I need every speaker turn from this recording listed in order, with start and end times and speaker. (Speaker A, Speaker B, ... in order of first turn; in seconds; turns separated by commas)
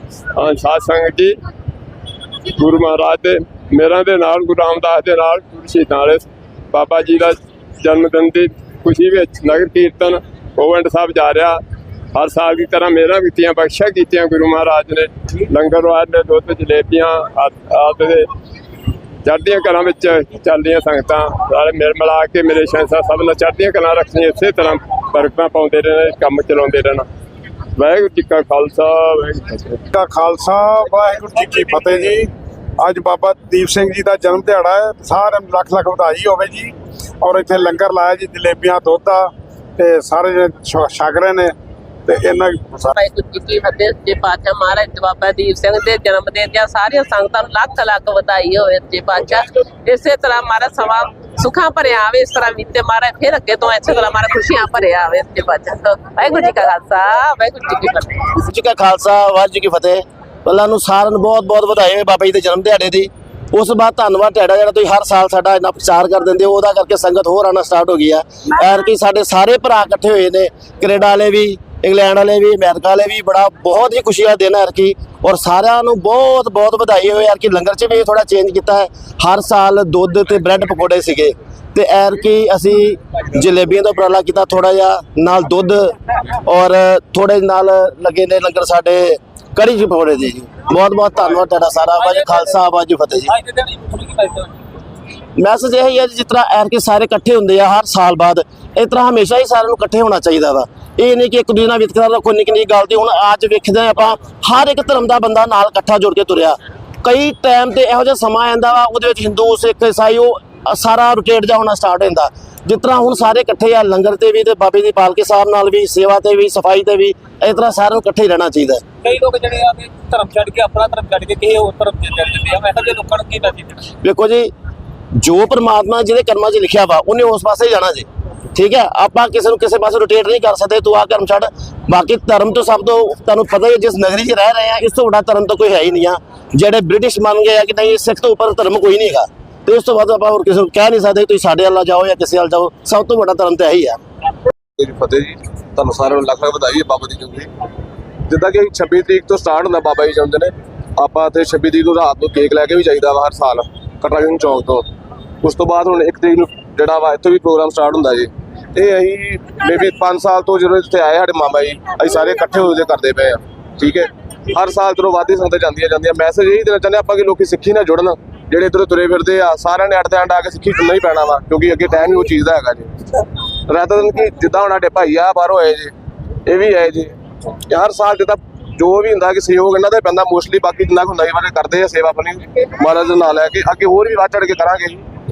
Speaker A: 0.3-1.3, Speaker A: 2.6-11.6, Speaker A: 12.1-18.2, Speaker A: 19.2-27.1, Speaker A: 27.8-29.8, Speaker B: 29.9-41.5, Speaker B: 42.0-42.9, Speaker C: 42.9-58.4, Speaker D: 58.4-93.3, Speaker E: 91.9-92.5, Speaker E: 93.3-94.5, Speaker D: 95.4-118.8, Speaker E: 119.0-123.8, Speaker D: 124.0-124.5, Speaker D: 125.2-144.0, Speaker F: 144.8-147.5, Speaker F: 148.3-154.9, Speaker F: 155.4-175.9, Speaker F: 176.5-177.2, Speaker F: 177.7-185.1